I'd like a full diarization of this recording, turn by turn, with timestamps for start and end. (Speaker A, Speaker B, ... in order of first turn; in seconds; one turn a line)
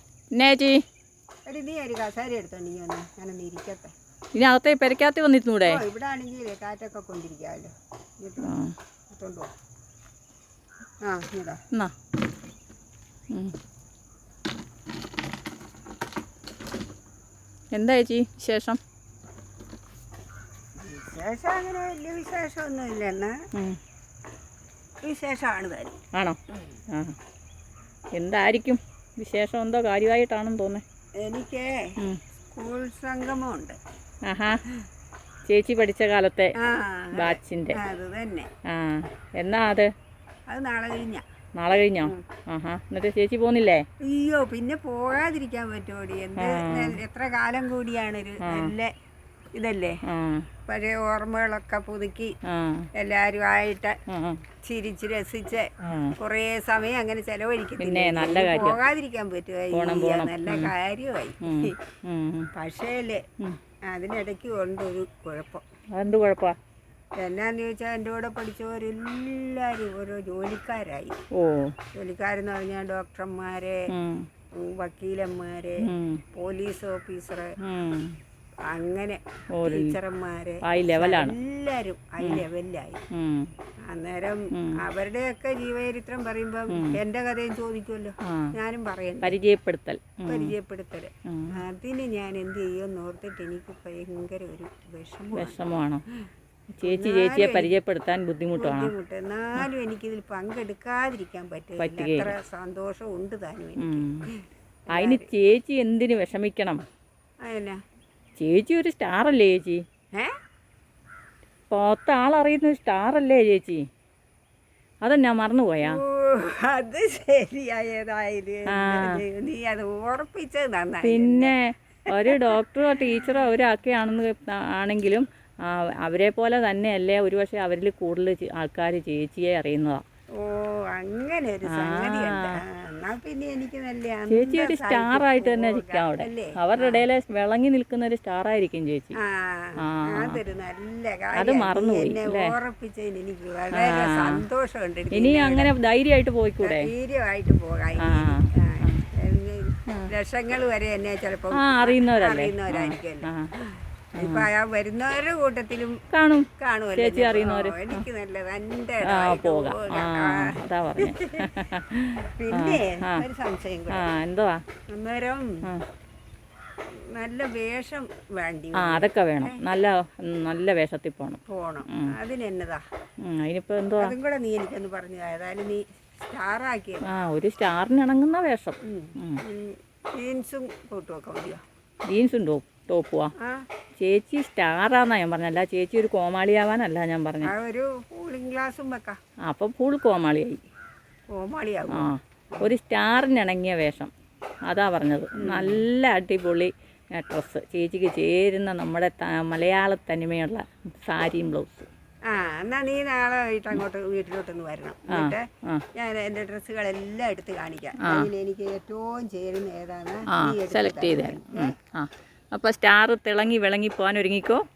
Speaker A: 0.3-0.8
Speaker B: 1.5-3.9
Speaker A: 4.3-5.8
Speaker B: 5.7-8.6
Speaker A: 8.4-8.8
Speaker B: 9.1-9.5
Speaker B: 11.0-11.6
Speaker A: 13.3-13.6
Speaker A: 17.7-18.8
Speaker B: 20.8-23.4
Speaker A: 23.5-23.8
Speaker B: 25.0-26.0
Speaker A: 26.1-26.4
Speaker A: 26.9-27.2
Speaker A: 28.1-30.8
Speaker B: 31.2-31.9
Speaker B: 32.5-33.8
Speaker A: 34.2-34.6
Speaker A: 35.5-36.5
Speaker B: 36.6-38.5
Speaker A: 37.1-37.8
Speaker A: 38.6-39.9
Speaker B: 40.5-41.2
Speaker A: 41.6-43.8
Speaker B: 44.0-48.9
Speaker A: 46.4-47.0
Speaker A: 48.4-48.7
Speaker B: 49.5-50.0
Speaker A: 50.0-50.5
Speaker B: 50.6-52.3
Speaker A: 52.5-52.9
Speaker B: 53.0-54.0
Speaker A: 54.1-54.4
Speaker B: 54.6-61.8
Speaker A: 55.8-56.2
Speaker A: 57.8-58.8
Speaker A: 59.7-60.7
Speaker A: 61.4-62.5
Speaker B: 62.5-63.2
Speaker B: 63.9-65.6
Speaker A: 65.9-66.6
Speaker B: 67.2-71.2
Speaker A: 71.3-71.7
Speaker B: 72.0-73.9
Speaker A: 73.9-74.3
Speaker B: 74.6-77.5
Speaker A: 75.8-76.2
Speaker A: 77.6-78.2
Speaker B: 78.7-83.0
Speaker A: 79.5-80.0
Speaker A: 80.6-81.4
Speaker A: 83.1-83.5
Speaker B: 83.9-89.4
Speaker A: 84.5-84.8
Speaker A: 86.7-87.0
Speaker A: 88.2-88.5
Speaker A: 89.2-90.5
Speaker B: 90.3-95.6
Speaker A: 91.3-91.5
Speaker A: 95.3-96.0
Speaker A: 96.8-98.9
Speaker B: 96.8-97.8
Speaker B: 98.5-105.3
Speaker A: 101.8-102.3
Speaker A: 103.8-104.2
Speaker A: 104.9-106.8
Speaker B: 107.4-107.8
Speaker A: 108.4-109.8
Speaker A: 111.7-113.8
Speaker A: 115.0-116.0
Speaker B: 115.8-121.5
Speaker A: 118.7-119.2
Speaker A: 121.0-130.0
Speaker B: 122.1-123.5
Speaker B: 130.4-137.1
Speaker A: 131.7-132.6
Speaker A: 134.3-139.2
Speaker B: 139.2-145.7
Speaker A: 139.8-140.4
Speaker A: 141.3-142.6
Speaker A: 143.7-144.4
Speaker A: 145.1-146.9
Speaker B: 146.6-156.0
Speaker A: 148.0-149.0
Speaker A: 149.9-150.1
Speaker A: 151.5-153.5
Speaker A: 154.2-154.5
Speaker A: 156.1-158.1
Speaker B: 156.6-161.7
Speaker A: 159.0-163.3
Speaker B: 162.4-164.1
Speaker A: 163.9-164.6
Speaker B: 164.9-165.6
Speaker B: 167.0-169.6
Speaker A: 168.8-172.1
Speaker B: 171.5-172.8
Speaker A: 173.2-174.2
Speaker B: 174.0-177.1
Speaker A: 177.1-179.4
Speaker B: 178.8-181.6
Speaker A: 182.1-183.3
Speaker B: 183.4-183.7
Speaker A: 184.0-187.5
Speaker B: 187.4-189.2
Speaker A: 189.5-190.7
Speaker B: 191.3-192.7
Speaker A: 191.9-194.1
Speaker A: 194.7-201.9
Speaker B: 195.4-195.8
Speaker B: 202.3-211.8
Speaker A: 205.1-205.8
Speaker A: 208.0-208.3
Speaker A: 210.3-214.7